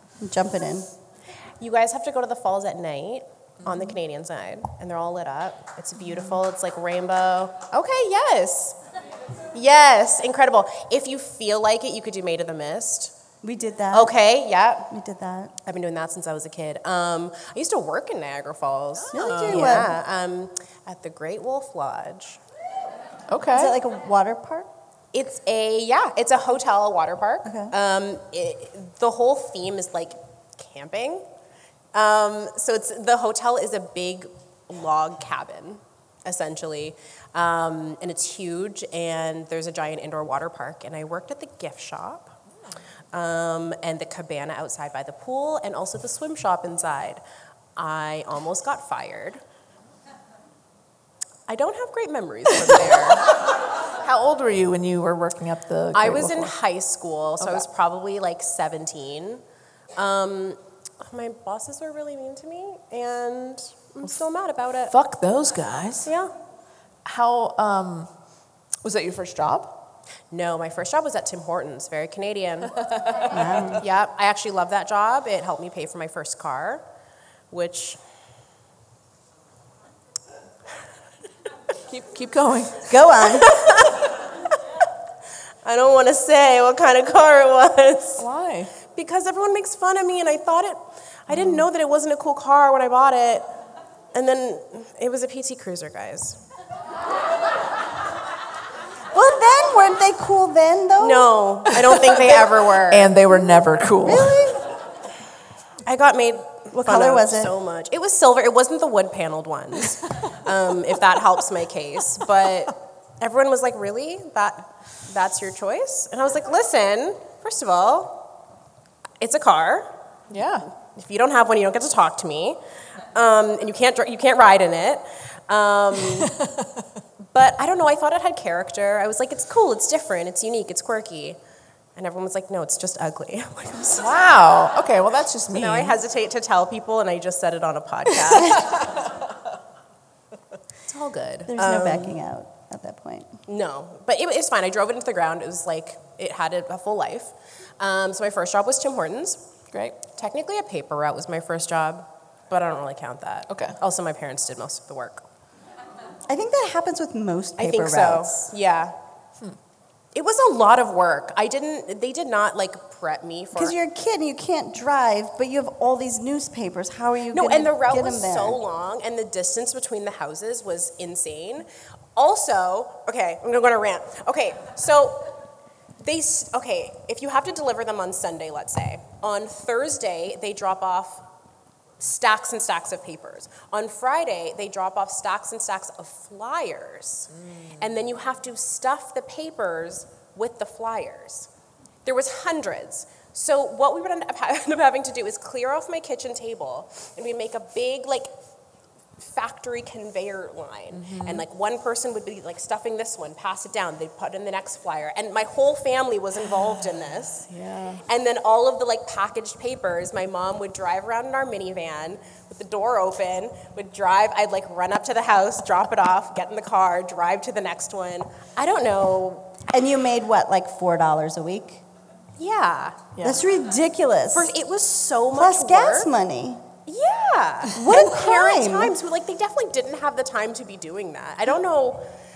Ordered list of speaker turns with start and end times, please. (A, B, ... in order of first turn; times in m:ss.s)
0:00.2-0:00.9 A
0:01.6-0:08.8 B
0:09.5-0:13.1 B
0:13.4-0:14.1 A
0:13.9-0:14.9 B
0:14.9-0:15.5 A
0:15.6-0:22.4 B
0:19.1-0:19.9 A
0:19.2-0:19.9 C
0:23.3-0:23.8 C
0:23.5-0:24.7 A
0:25.1-0:31.2 B
0:27.4-0:27.7 A
0:31.9-0:42.3 B
0:43.1-0:47.2 B
0:47.8-0:49.4 B
0:51.5-0:53.3 B
0:54.0-0:56.5 C
0:55.9-0:59.4 B
1:00.0-1:04.9 B
1:04.9-1:06.1 C
1:06.0-1:06.3 B
1:07.0-1:08.1 C
1:08.8-1:09.8 C
1:10.3-1:12.8 B
1:13.3-1:13.8 A
1:13.8-1:16.8 B
1:17.5-1:18.0 B
1:21.9-1:23.0 C
1:22.9-1:23.5 A
1:23.3-1:24.0 B
1:25.6-1:28.2 B
1:28.2-1:28.7 C
1:28.9-1:33.5 B
1:34.1-1:36.4 B
1:39.1-1:41.3 A
1:41.0-1:43.1 B
1:42.9-1:44.4 C
1:44.0-1:44.6 A
1:45.8-1:58.3 B
1:46.8-1:47.5 A
1:59.2-1:59.9 B
2:00.3-2:00.6 C
2:00.9-2:02.6 B
2:03.1-2:06.3 B
2:06.3-2:06.7 C
2:07.3-2:11.4 B
2:12.0-2:14.1 B
2:14.0-2:16.0 C
2:15.5-2:18.8 B
2:20.8-2:22.2 B
2:21.5-2:23.4 A
2:23.5-2:29.4 B
2:29.7-2:30.0 C
2:30.1-2:35.2 B
2:33.5-2:33.8 C
2:36.3-2:38.5 A
2:37.6-2:38.9 B
2:40.1-2:43.8 B
2:43.5-2:48.6 A
2:47.3-2:55.3 B
2:56.0-3:01.2 B
3:02.0-3:11.5 B
3:12.0-3:18.3 B
3:19.2-3:27.5 B
3:20.9-3:21.4 C
3:27.5-3:28.0 C
3:28.0-3:39.5 B
3:39.7-3:41.8 A
3:42.4-3:43.0 B
3:43.2-3:44.5 A
3:44.3-3:46.1 B
3:45.3-3:46.6 A
3:46.9-3:52.1 B
3:47.7-3:48.9 A